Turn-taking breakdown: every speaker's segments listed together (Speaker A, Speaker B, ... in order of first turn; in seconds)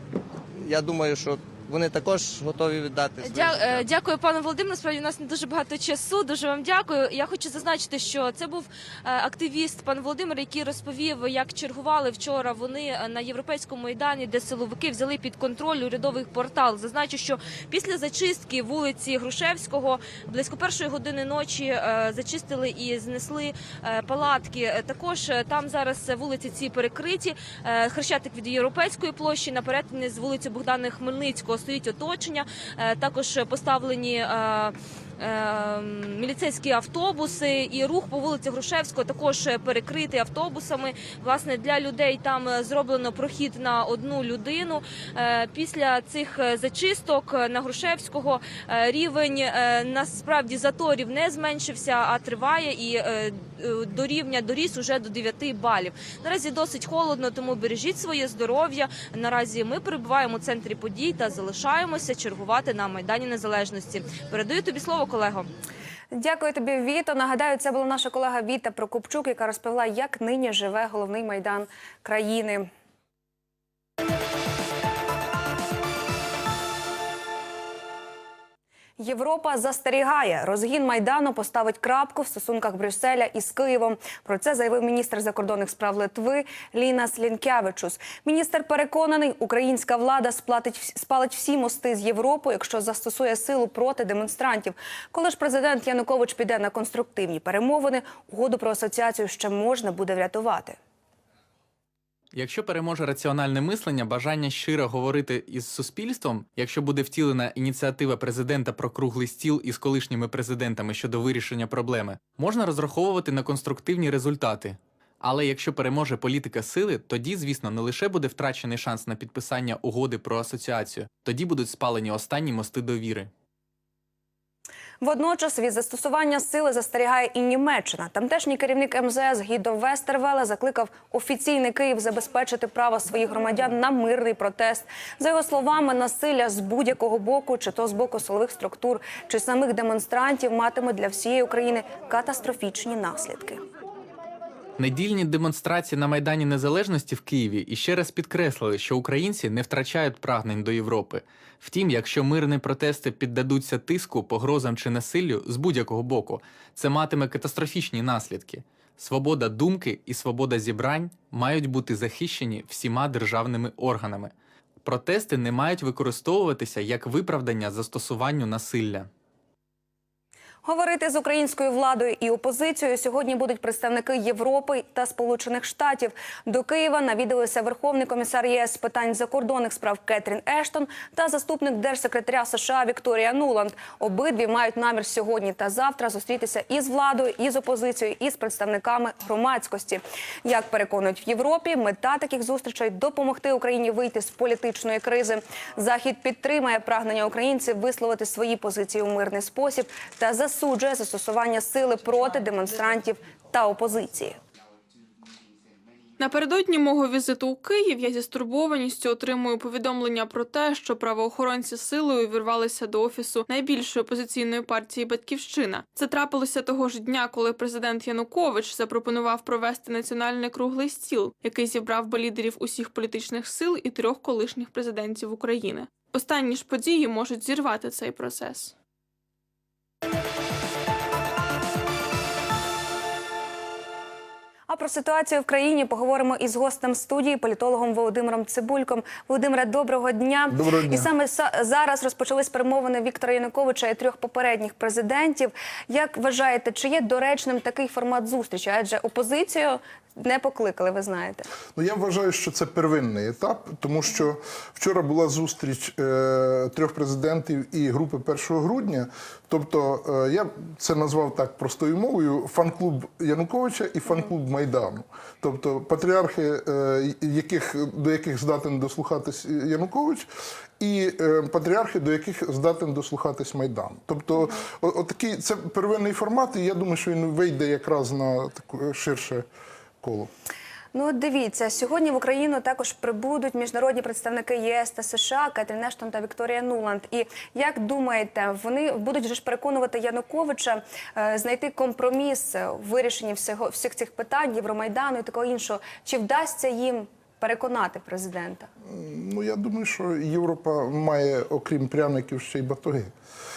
Speaker A: 0.6-3.8
Speaker B: 3.2-65.5
Speaker C: 66.1-72.7, 79.0-100.8, 125.0-143.6, 170.6-204.4, 234.7-251.4, 280.9-298.7
Speaker D: 102.3-123.3, 144.8-169.1
Speaker E: 206.2-228.7
Speaker F: 240.5-241.1, 251.7-270.3, 270.8-279.4, 280.0-280.3, 298.9-303.1